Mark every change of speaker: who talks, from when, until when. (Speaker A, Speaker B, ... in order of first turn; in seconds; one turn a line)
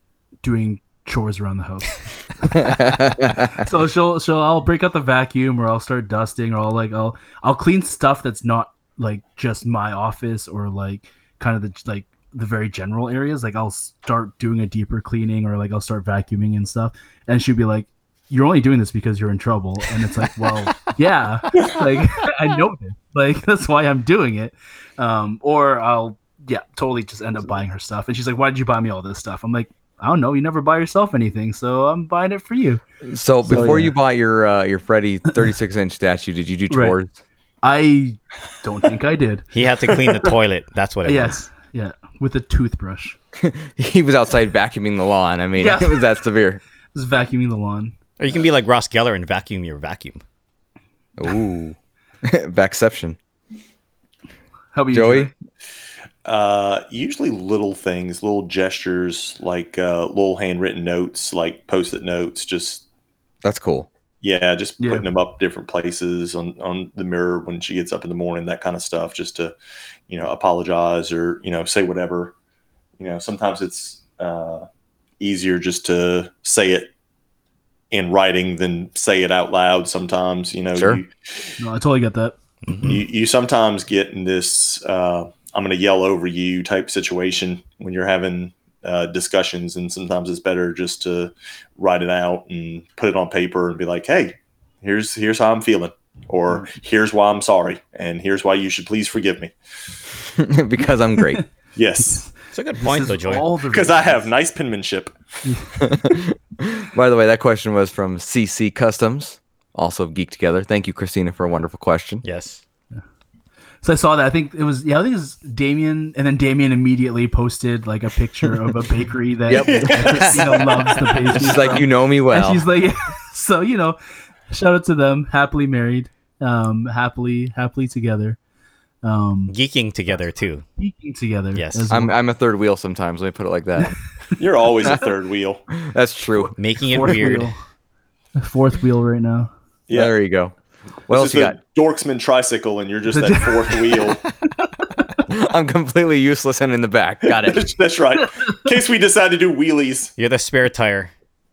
Speaker A: 0.4-32.8
Speaker B: 2.5-3.5
Speaker B: 33.0-37.1
Speaker A: 33.5-33.9
Speaker A: 36.7-37.0
Speaker A: 37.6-39.5
Speaker C: 39.5-41.4
Speaker A: 41.0-43.2
Speaker B: 43.4-46.6
Speaker A: 45.6-46.1
Speaker A: 46.9-48.0
Speaker C: 48.2-50.2
Speaker B: 51.2-53.2
Speaker A: 54.7-55.3
Speaker B: 54.9-55.3
Speaker D: 56.2-62.8
Speaker B: 63.4-63.9
Speaker D: 64.2-69.5
Speaker A: 64.8-65.1
Speaker D: 70.1-72.3
Speaker D: 73.0-74.7
Speaker D: 75.2-76.9
Speaker D: 77.9-81.5
Speaker B: 80.8-81.0
Speaker A: 81.6-82.4
Speaker D: 82.8-99.5
Speaker B: 100.3-101.4
Speaker D: 101.8-102.2
Speaker A: 102.0-104.3
Speaker C: 102.5-103.5
Speaker D: 103.7-105.2
Speaker A: 105.5-105.9
Speaker B: 105.8-112.2
Speaker C: 112.2-112.6
Speaker A: 113.8-124.0
Speaker B: 119.5-120.4
Speaker D: 119.5-121.1
Speaker B: 121.3-122.7
Speaker A: 124.5-128.4
Speaker A: 129.0-129.5
Speaker C: 129.5-130.7
Speaker A: 130.8-132.2
Speaker C: 131.5-131.9
Speaker B: 131.9-134.0
Speaker D: 134.4-135.6
Speaker B: 135.8-137.3
Speaker C: 136.6-137.5
Speaker A: 136.8-137.6
Speaker A: 138.4-139.5
Speaker D: 139.9-140.1
Speaker B: 139.9-140.5
Speaker B: 141.1-141.6
Speaker D: 141.1-144.2
Speaker A: 143.1-144.0
Speaker B: 145.3-147.7
Speaker D: 147.3-150.1
Speaker C: 150.2-151.1